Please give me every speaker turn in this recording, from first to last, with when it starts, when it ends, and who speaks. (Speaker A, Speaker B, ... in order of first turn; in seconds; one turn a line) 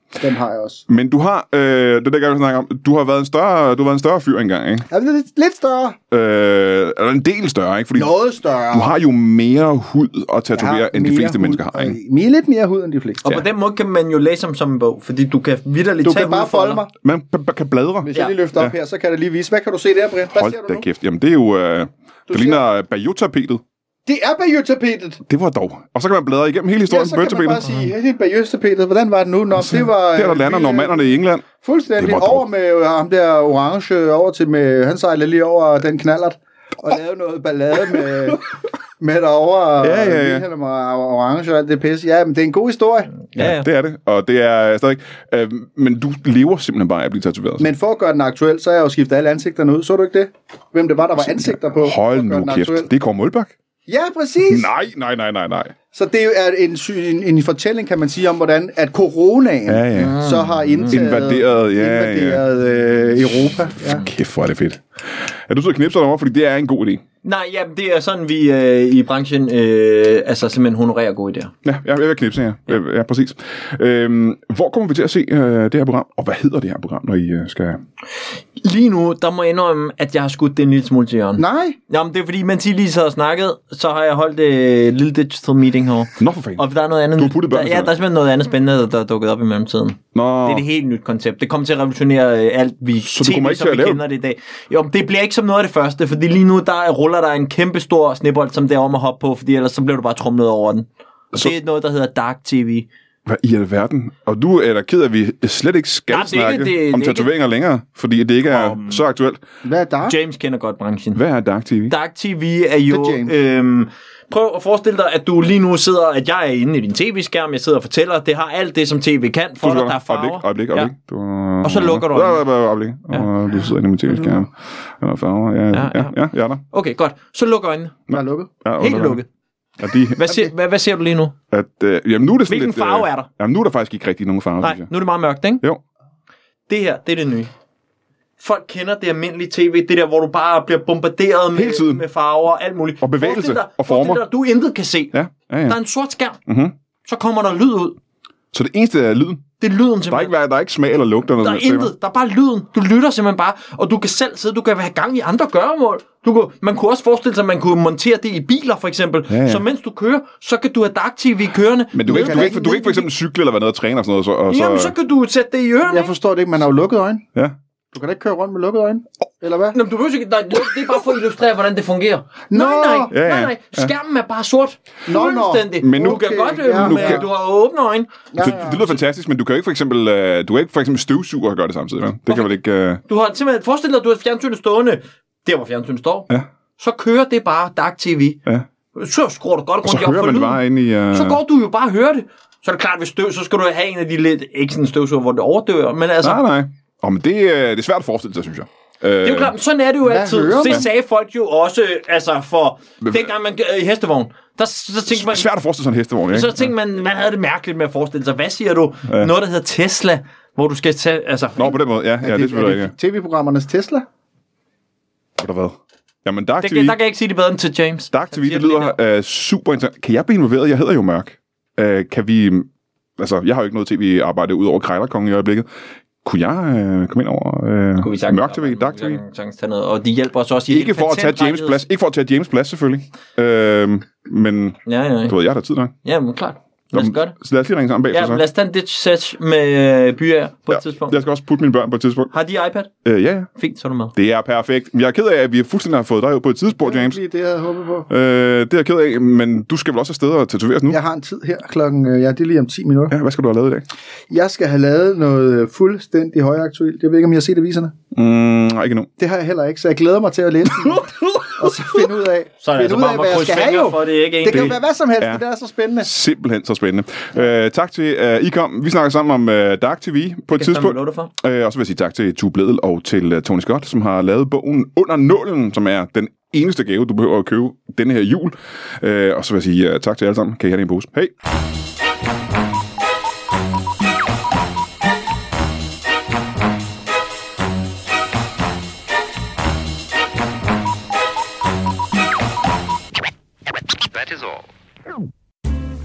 Speaker A: 0.2-0.8
Speaker B: 0.9-4.9
Speaker A: 4.9-6.0
Speaker B: 6.1-8.1
Speaker A: 8.0-8.9
Speaker B: 8.7-12.0
Speaker A: 10.5-13.3
Speaker C: 13.2-16.9
Speaker A: 16.0-16.9
Speaker B: 17.0-18.7
Speaker A: 18.0-20.9
Speaker B: 20.4-23.6
Speaker A: 22.3-22.6
Speaker A: 24.1-25.2
Speaker B: 25.3-27.7
Speaker A: 26.9-38.5
Speaker B: 29.6-31.5
Speaker B: 32.0-32.4
Speaker A: 39.0-43.1
Speaker B: 39.8-40.5
Speaker C: 43.3-43.7
Speaker B: 43.4-47.7
Speaker A: 47.6-52.9
Speaker B: 51.2-53.5
Speaker A: 53.9-54.7
Speaker B: 54.5-55.8
Speaker A: 55.9-64.1
Speaker B: 59.7-60.2
Speaker C: 60.0-61.0
Speaker B: 60.9-62.4
Speaker B: 64.0-67.0
Speaker C: 67.2-71.5
Speaker B: 71.7-77.8
Speaker C: 78.6-102.9
Speaker A: 81.4-81.8
Speaker B: 86.2-86.6
Speaker B: 87.2-87.9
Speaker B: 90.2-90.7
Speaker B: 93.0-94.0
Speaker B: 103.3-109.4
Speaker C: 106.1-107.3
Speaker C: 108.5-109.0
Speaker A: 109.6-110.2
Speaker C: 110.1-111.2
Speaker B: 111.2-111.9
Speaker C: 111.9-120.9
Speaker A: 112.9-113.3
Speaker B: 119.6-126.6
Speaker C: 121.6-122.5
Speaker C: 125.7-128.0
Speaker B: 128.1-129.2
Speaker A: 128.1-128.5
Speaker C: 128.8-129.3
Speaker B: 129.8-130.4
Speaker C: 130.2-131.3
Speaker B: 131.5-134.9
Speaker C: 132.5-133.3
Speaker C: 134.6-135.6
Speaker C: 136.7-137.5
Speaker C: 138.4-145.2
Speaker B: 141.5-142.0
Speaker B: 143.0-144.2
Speaker B: 145.1-145.8
Speaker C: 145.7-146.4
Speaker B: 146.5-146.7
Speaker C: 147.1-148.0
Speaker B: 148.5-149.4
Speaker C: 149.6-150.3
Speaker B: 150.1-151.9
Speaker C: 151.4-163.1
Speaker B: 159.3-159.6
Speaker B: 161.9-164.9
Speaker A: 162.1-162.7
Speaker C: 164.5-166.1
Speaker A: 165.9-167.2
Speaker A: 167.9-169.8
Speaker C: 169.7-178.4
Speaker A: 172.5-173.1
Speaker B: 173.1-173.9
Speaker A: 175.1-177.3
Speaker B: 175.8-177.3
Speaker A: 178.3-179.0
Speaker B: 178.4-183.0
Speaker C: 183.1-188.4
Speaker C: 188.9-196.4
Speaker B: 189.8-191.4
Speaker B: 196.2-199.5
Speaker C: 199.2-205.5
Speaker A: 200.0-200.9
Speaker B: 205.1-206.7
Speaker C: 206.3-211.8
Speaker B: 211.6-212.9
Speaker A: 212.2-214.1
Speaker B: 215.4-217.0
Speaker C: 216.6-219.0
Speaker B: 218.1-225.7
Speaker B: 226.2-229.2
Speaker C: 228.0-231.8
Speaker B: 230.7-235.9
Speaker C: 234.9-235.4
Speaker C: 236.0-237.3
Speaker B: 236.9-238.4
Speaker C: 238.1-241.1
Speaker B: 240.7-242.3
Speaker C: 242.3-242.9
Speaker B: 243.1-243.5
Speaker C: 243.6-244.1
Speaker B: 244.2-247.2
Speaker A: 246.8-248.1
Speaker B: 248.1-251.0
Speaker A: 250.9-253.2
Speaker B: 253.1-253.8
Speaker A: 254.3-257.9
Speaker B: 258.1-259.1
Speaker A: 259.2-266.1
Speaker C: 261.0-261.5
Speaker C: 262.6-264.8
Speaker B: 264.5-265.4
Speaker B: 266.0-281.3
Speaker C: 270.5-271.3